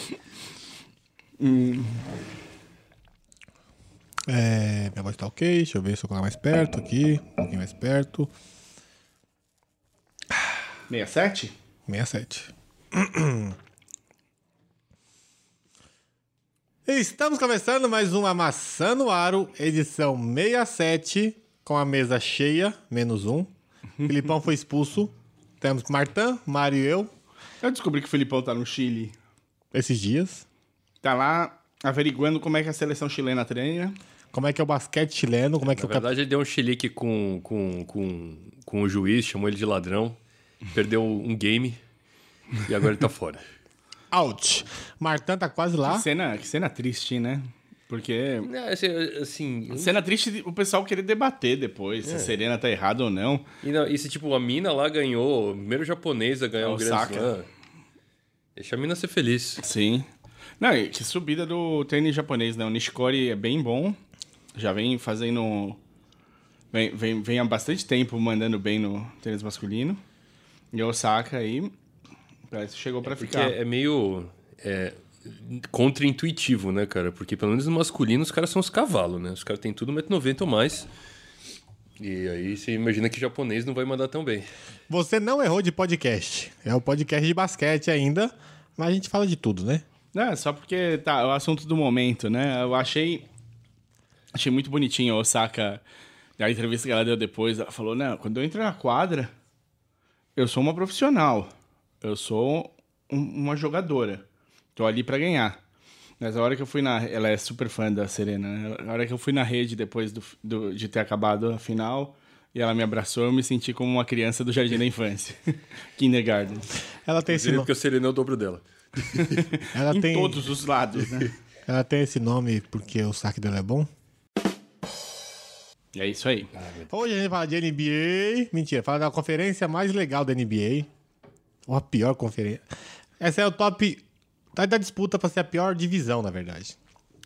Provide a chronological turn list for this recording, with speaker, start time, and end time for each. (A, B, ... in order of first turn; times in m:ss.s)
0:01.4-0:02.1 A
0:04.3-0:08.3 B
0:10.9-0:11.5 A
0:11.9-0:13.6 B
0:16.9-0:23.5 B
0:24.0-0:27.1 B
0:27.6-0:29.2 A
0:29.7-0:30.4 B
0:31.0-0:34.0 A
0:34.3-0:36.1 B
0:35.7-0:40.2 C
0:40.7-0:41.8 C
0:42.6-0:43.4 C
0:44.1-0:46.1 B
0:45.8-0:48.5 A
0:48.4-0:50.0 C
0:49.7-0:53.5 A
0:52.0-0:52.3 C
0:53.6-0:57.5 C
0:56.6-0:57.3 A
0:58.6-0:59.6 C
0:59.6-1:00.1 A
1:00.6-1:04.0 A
1:04.6-1:05.8 A
1:06.7-1:10.0 A
1:10.7-1:11.7 A
1:12.5-1:13.6 A
1:13.1-1:20.9 C
1:22.0-1:24.5 C
1:24.9-1:29.8 B
1:30.1-1:33.3 A
1:34.3-1:35.8 A
1:36.4-1:39.3 A
1:40.4-1:41.5 A
1:42.0-1:44.2 A
1:44.8-1:45.6 A
1:46.2-1:56.7 A
1:57.0-1:57.7 B
1:57.3-1:59.5 C
1:59.2-2:01.3 A
1:59.7-2:00.6 B
2:01.7-2:03.9 B
2:05.9-2:06.5 A
2:06.6-2:06.9 C
2:06.9-2:10.9 B
2:11.7-2:12.6 B
2:13.2-2:14.0 B
2:14.5-2:16.8 B